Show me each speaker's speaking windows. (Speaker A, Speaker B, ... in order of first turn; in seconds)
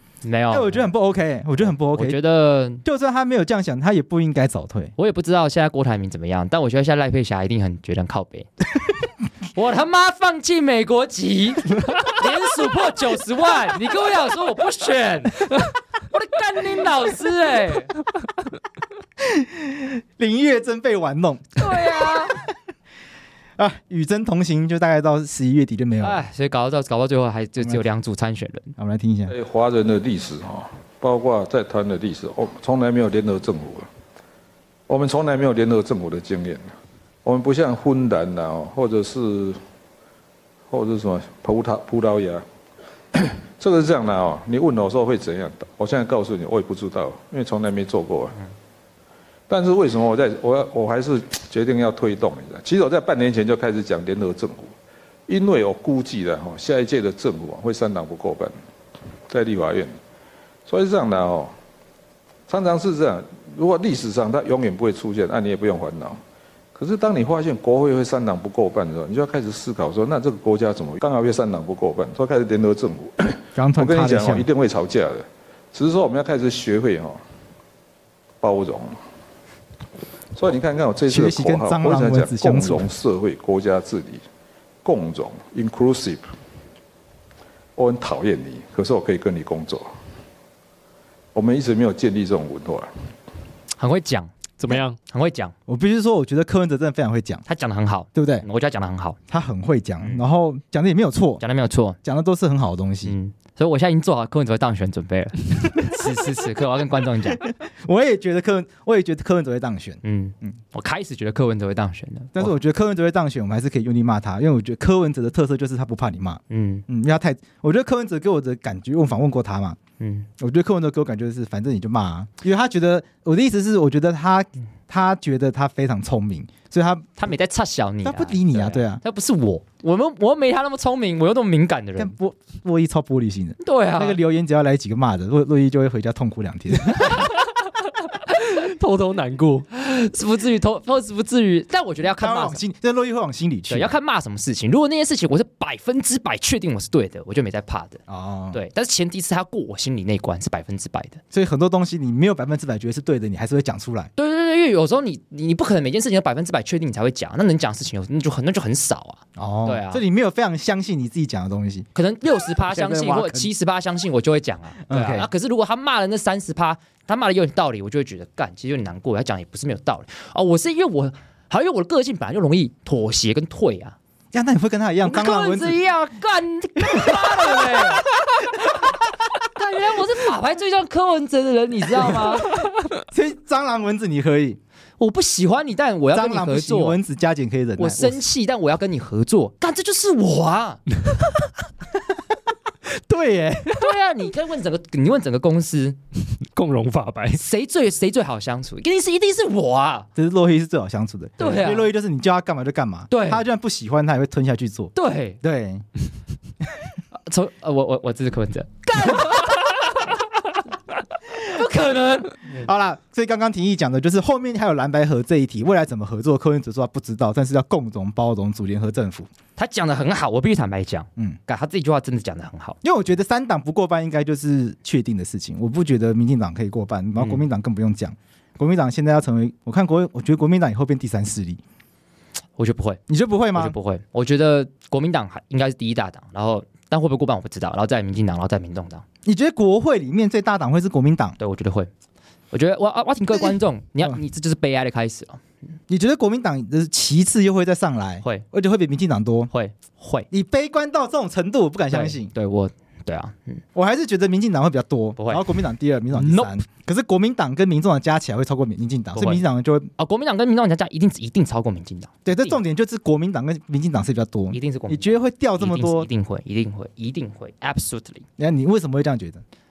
Speaker A: 0.2-0.9, 1.6-2.8, 5.0-8.5, 9.6-17.9, 21.6-22.4, 26.0-28.7, 93.8-95.5, 97.5-99.2, 101.4-102.0, 103.0-107.5, 110.0-112.5, 116.5-116.8, 120.0-120.3, 127.2-132.1, 133.6-134.2, 139.7-142.6, 143.7-148.0, 148.5-151.2, 154.2-160.0, 161.9-174.0, 175.1-178.1, 179.6-182.5, 185.0-187.0, 187.8-190.8, 193.8-196.0, 197.3-200.1, 201.4-201.9, 203.1-203.4, 204.9-205.4, 207.1-209.6, 211.3-212.6, 219.6-222.8, 227.2-227.4, 232.6-233.0, 233.6-239.1, 241.4-241.9, 242.5-245.4, 249.5-250.3, 251.9-253.6, 255.2-255.5, 256.1-256.5, 259.1-259.4, 260.0-262.6, 264.5-268.3
Speaker B: 0.5-2.2, 2.8-4.9, 19.3-21.6, 23.6-26.2, 27.6-27.9, 28.8-29.3, 73.5-74.5, 81.1-82.9, 95.7-97.4, 98.1-98.4, 99.3-101.4, 102.0-103.2, 107.5-110.6, 112.3-119.8, 120.4-127.1, 128.0-129.0, 132.0-137.2, 142.2-143.9, 148.1-148.6, 151.3-154.1, 159.4-161.9, 162.7-163.5, 164.9-165.3, 174.3-175.8, 176.9-177.5, 183.1-184.6, 186.1-188.2, 192.9-193.8, 200.2-205.8, 212.5-219.3, 222.8-231.6, 233.1-233.8, 239.2-241.4, 243.3-244.2, 245.9-249.5, 250.3-252.3, 253.8-259.9, 262.2-266.1, 268.4-269.4
Speaker C: 29.3-33.9, 34.9-36.7, 37.2-39.6, 40.7-42.4, 43.1-48.4, 49.5-54.7, 55.3-58.5, 59.3-59.9, 60.7-61.5, 62.5-66.2, 66.8-77.2, 78.4-79.0, 80.3-84.2, 84.8-86.3, 87.8-89.9, 91.3-92.9
Speaker D: 94.6-95.0, 138.0-139.7, 196.5-197.4